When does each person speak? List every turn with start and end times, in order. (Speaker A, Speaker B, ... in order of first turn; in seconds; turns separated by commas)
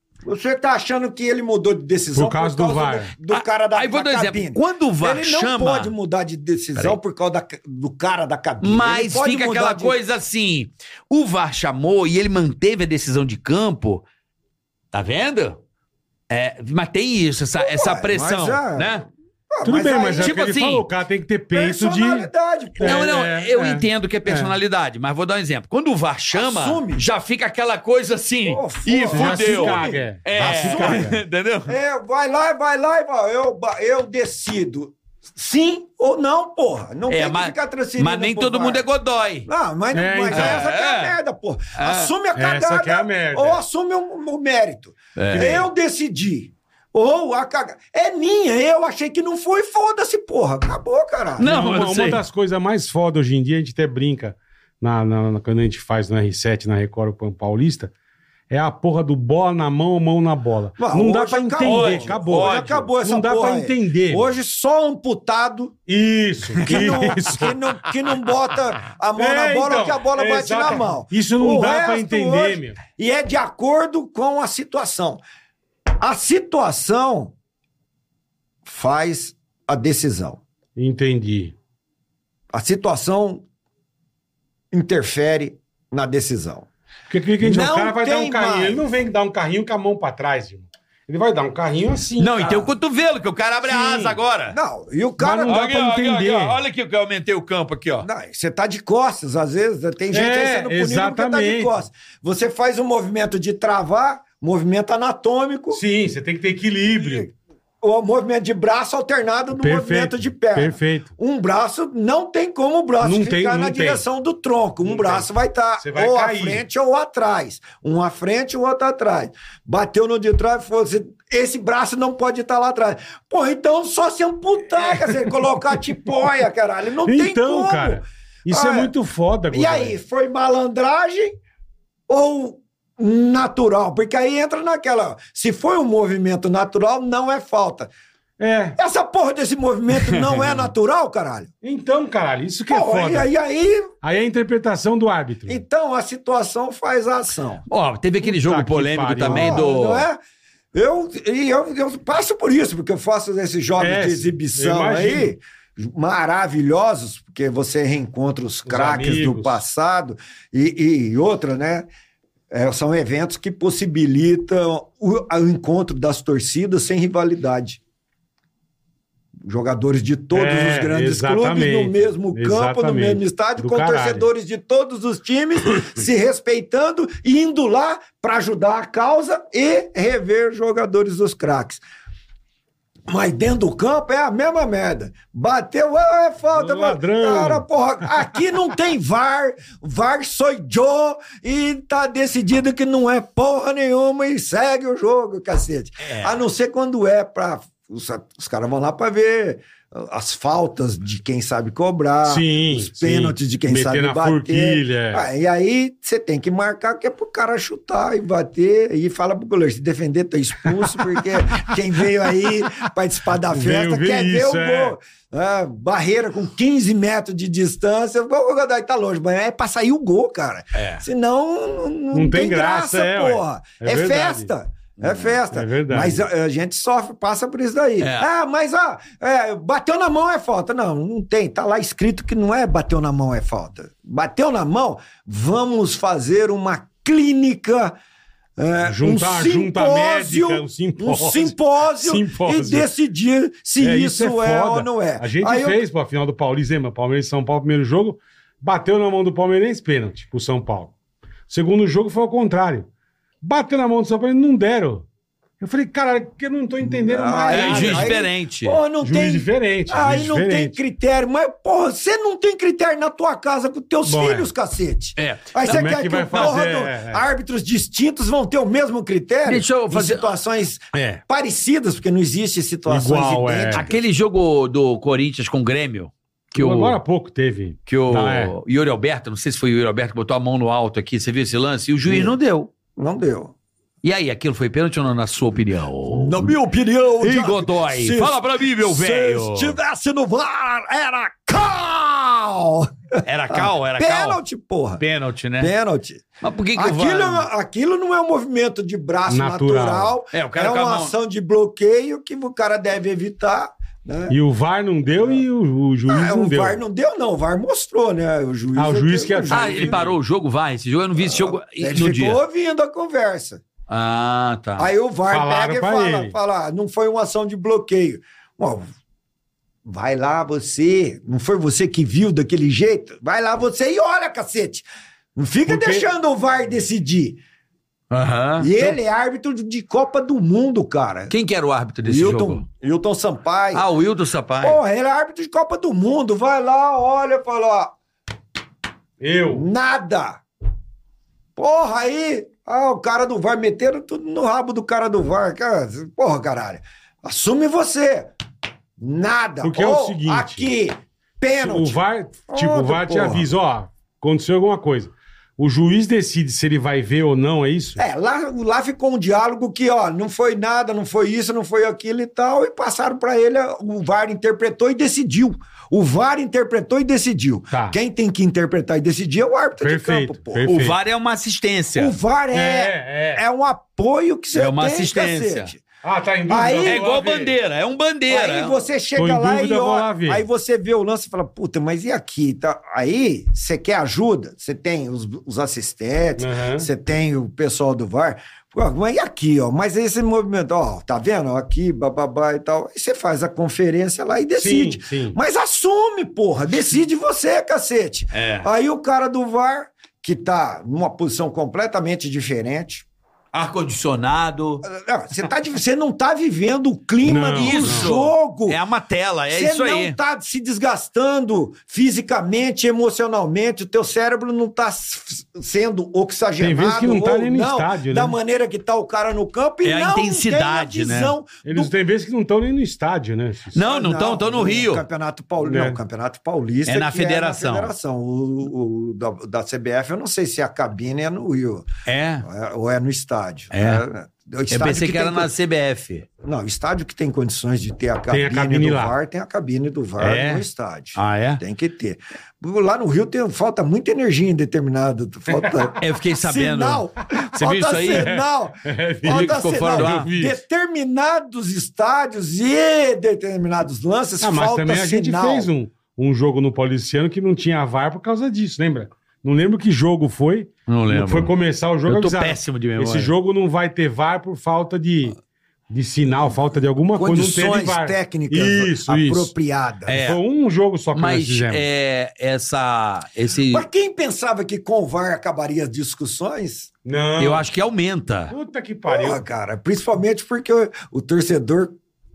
Speaker A: 0.2-10.0, Speaker B: 2.1-3.1, Speaker C: 3.3-5.9, Speaker C: 8.6-14.0, Speaker C: 14.9-15.6, Speaker C: 16.3-19.1, Speaker A: 17.6-18.9, Speaker A: 19.5-20.4, Speaker B: 19.6-24.5, Speaker C: 20.2-20.9, Speaker A: 21.5-23.1, Speaker C: 22.8-31.8, Speaker A: 26.3-27.0, Speaker A: 28.5-31.1, Speaker B: 29.1-31.2, Speaker A: 31.7-38.9, Speaker C: 37.1-39.5, Speaker A: 39.5-51.5, Speaker B: 39.9-40.7, Speaker C: 40.3-41.2, Speaker C: 41.8-42.1, Speaker B: 42.4-43.6, Speaker C: 45.2-45.7, Speaker C: 51.4-52.2, Speaker B: 51.4-57.9, Speaker B: 58.5-64.3, Speaker A: 60.8-65.8, Speaker C: 61.6-62.8, Speaker B: 65.9-67.5, Speaker C: 66.6-67.0, Speaker A: 66.6-75.2, Speaker B: 69.2-72.8, Speaker A: 76.0-77.3, Speaker A: 78.7-80.4, Speaker B: 80.8-81.5, Speaker A: 82.5-83.5, Speaker A: 84.7-86.7, Speaker B: 87.1-92.6, Speaker A: 87.4-88.8, Speaker C: 92.2-94.6, Speaker B: 93.7-94.2, Speaker A: 94.5-95.9, Speaker B: 95.2-96.6, Speaker C: 95.5-98.1, Speaker A: 98.0-105.8, Speaker B: 100.1-101.8, Speaker B: 105.7-107.3, Speaker A: 107.0-128.9, Speaker B: 109.5-111.1, Speaker B: 113.0-114.0, Speaker B: 114.8-115.3, Speaker B: 115.8-116.6, Speaker B: 127.0-130.0, Speaker A: 129.5-131.4, Speaker A: 132.1-137.9, Speaker B: 138.4-138.8, Speaker A: 138.8-141.5, Speaker B: 141.6-143.3, Speaker A: 142.7-143.9, Speaker B: 144.0-145.6, Speaker A: 145.5-147.6, Speaker C: 147.7-150.1, Speaker B: 148.2-149.6, Speaker A: 149.2-150.2, Speaker A: 150.7-161.9, Speaker B: 153.8-155.3, Speaker B: 158.7-159.6, Speaker A: 162.5-167.8, Speaker A: 169.4-181.8, Speaker B: 170.3-174.3, Speaker A: 183.1-237.9, Speaker B: 186.5-187.7, Speaker C: 196.0-196.4, Speaker B: 202.2-205.3, Speaker B: 213.5-215.0, Speaker C: 220.7-221.0, Speaker B: 222.1-224.5, Speaker C: 225.0-225.3, Speaker B: 225.5-226.3, Speaker C: 228.0-228.3, Speaker A: 238.6-245.8, Speaker B: 238.8-242.9, Speaker B: 243.8-250.9, Speaker B: 251.5-252.9, Speaker B: 253.4-255.1, Speaker B: 255.6-258.1, Speaker A: 256.8-274.0, Speaker C: 257.5-258.8, Speaker B: 259.0-260.8, Speaker B: 264.1-264.5, Speaker C: 265.2-265.8, Speaker B: 265.6-267.2, Speaker C: 266.3-266.6, Speaker C: 269.4-270.3, Speaker B: 270.9-271.2, Speaker B: 272.9-273.8, Speaker C: 273.8-277.0, Speaker B: 276.6-278.6, Speaker C: 277.9-282.7, Speaker A: 282.1-282.4, Speaker A: 282.9-283.5, Speaker C: 284.0-286.5, Speaker A: 286.1-295.0, Speaker C: 287.2-289.8, Speaker C: 293.2-294.4, Speaker C: 295.0-295.7, Speaker A: 295.6-304.4, Speaker C: 296.4-297.5, Speaker B: 299.3-300.2, Speaker C: 300.3-301.1, Speaker B: 304.3-306.8, Speaker A: 305.1-305.4, Speaker A: 306.1-310.1, Speaker B: 308.8-310.2, Speaker C: 309.5-312.4, Speaker A: 311.2-313.6, Speaker C: 313.9-314.9, Speaker A: 314.8-318.9, Speaker B: 315.3-316.4, Speaker A: 319.9-327.4, Speaker B: 325.7-326.1, Speaker C: 328.1-329.0, Speaker A: 328.6-331.4, Speaker C: 331.3-332.6, Speaker A: 332.0-333.9, Speaker C: 333.7-334.8, Speaker A: 334.6-337.9, Speaker B: 339.2-339.7, Speaker A: 339.5-340.4, Speaker A: 341.6-348.3, Speaker A: 349.0-353.5, Speaker B: 349.6-350.7, Speaker B: 351.5-358.0, Speaker A: 358.0-370.7, Speaker B: 367.7-368.0, Speaker B: 369.8-371.0, Speaker C: 370.7-372.1, Speaker A: 372.0-375.8, Speaker B: 372.5-373.4, Speaker C: 374.5-375.7, Speaker B: 376.0-377.5, Speaker A: 376.5-377.0, Speaker C: 376.9-378.8, Speaker A: 378.3-403.1, Speaker B: 379.2-380.4, Speaker B: 386.4-386.9, Speaker B: 394.6-395.4, Speaker C: 398.3-398.7, Speaker C: 403.5-404.8, Speaker A: 404.8-408.8, Speaker B: 407.2-408.1, Speaker C: 407.5-410.2, Speaker A: 409.5-421.9, Speaker B: 416.6-418.4, Speaker C: 419.8-421.4, Speaker B: 421.7-423.8, Speaker C: 423.7-425.0, Speaker A: 423.8-431.9, Speaker B: 425.6-426.0, Speaker C: 426.9-427.9, Speaker C: 432.1-432.4, Speaker A: 432.4-435.5, Speaker C: 433.7-434.0, Speaker C: 434.7-436.3, Speaker A: 436.4-455.7, Speaker B: 438.3-439.2, Speaker C: 440.2-440.6, Speaker C: 441.1-441.6, Speaker B: 445.5-445.8, Speaker C: 446.0-448.4, Speaker B: 448.1-450.6, Speaker C: 449.3-450.3, Speaker B: 454.4-465.4, Speaker C: 460.9-461.5, Speaker C: 462.1-463.3, Speaker B: 465.9-469.5, Speaker A: 467.1-470.2, Speaker C: 470.1-470.4, Speaker B: 470.1-471.9, Speaker C: 471.1-473.9, Speaker A: 473.7-476.9, Speaker B: 477.1-477.6, Speaker C: 477.4-478.5, Speaker B: 478.5-479.4, Speaker A: 479.1-482.0